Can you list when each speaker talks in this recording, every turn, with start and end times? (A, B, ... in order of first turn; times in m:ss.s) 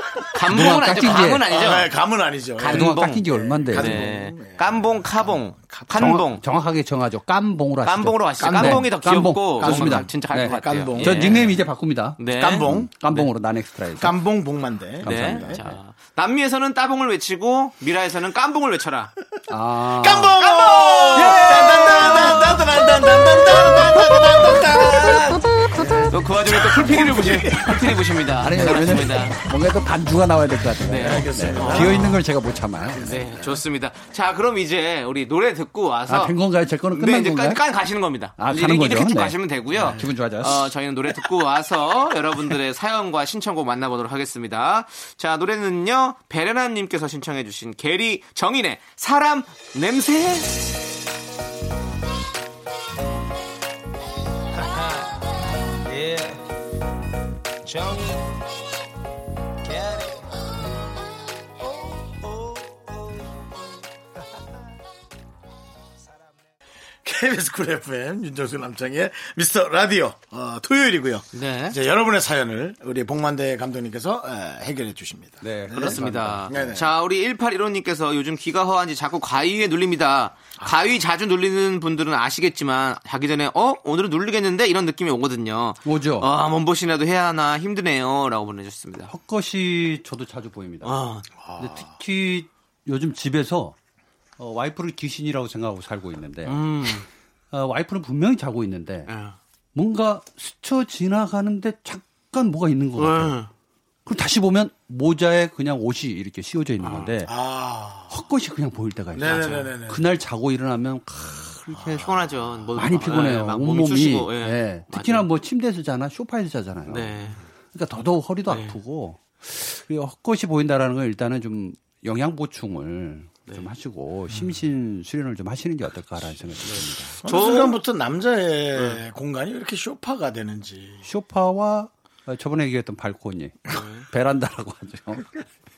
0:00.3-0:01.9 A
0:00.5-0:01.5 B
0:01.5-0:06.2 C
0:02.6-0:06.4 A
0:02.6-0:04.1 B
0:05.9-0:14.2 B
0:07.8-0:11.6 A
0:08.4-0:08.9 C
0:09.6-0:11.6 C
0:12.2-0:13.3 A
0:12.3-0:13.0 C
0:14.0-0:15.6 C
0:15.0-0:15.8 B
0:15.0-0:19.1 A
0:19.5-0:20.4 B
0:19.9-0:27.8 C
0:20.4-0:22.6 A
0:21.2-0:22.4 B
0:24.7-0:25.3 A
0:25.8-0:26.1 B
0:26.1-0:29.4 A
0:28.3-0:33.2 B
0:30.9-0:32.2 A
0:30.9-0:32.0 C
0:33.0-0:36.4 A
0:36.1-0:37.6 B
0:36.9-0:50.7 A
0:38.4-0:40.7 B
1:07.0-1:16.9 C
1:11.3-1:11.8 A
1:15.4-1:16.7 B
1:15.7-1:29.1 A
1:25.8-1:26.3 B
1:29.1-1:31.0 B
1:30.8-1:31.3 A
1:31.4-1:31.9 C
1:31.6-1:33.8 B
1:34.4-1:36.6 B
1:36.5-1:37.1 A
1:37.5-1:39.1 B
1:39.1-1:39.4 A
1:39.8-1:43.4 B
1:43.0-1:43.5 A
1:44.1-1:47.3 B
1:46.8-1:47.1 A
1:47.3-1:48.2 C
1:48.1-1:52.1 B
1:49.1-1:50.0 C
1:49.2-1:49.7 A
1:51.8-1:52.1 C
1:52.0-1:55.3 A
1:52.8-1:57.2 B
1:56.9-1:57.4 A
1:57.7-2:07.2 B
1:58.5-1:58.8 A
2:06.6-2:07.8 A
2:07.2-2:11.0 C
2:11.0-2:15.4 B
2:13.7-2:14.1 A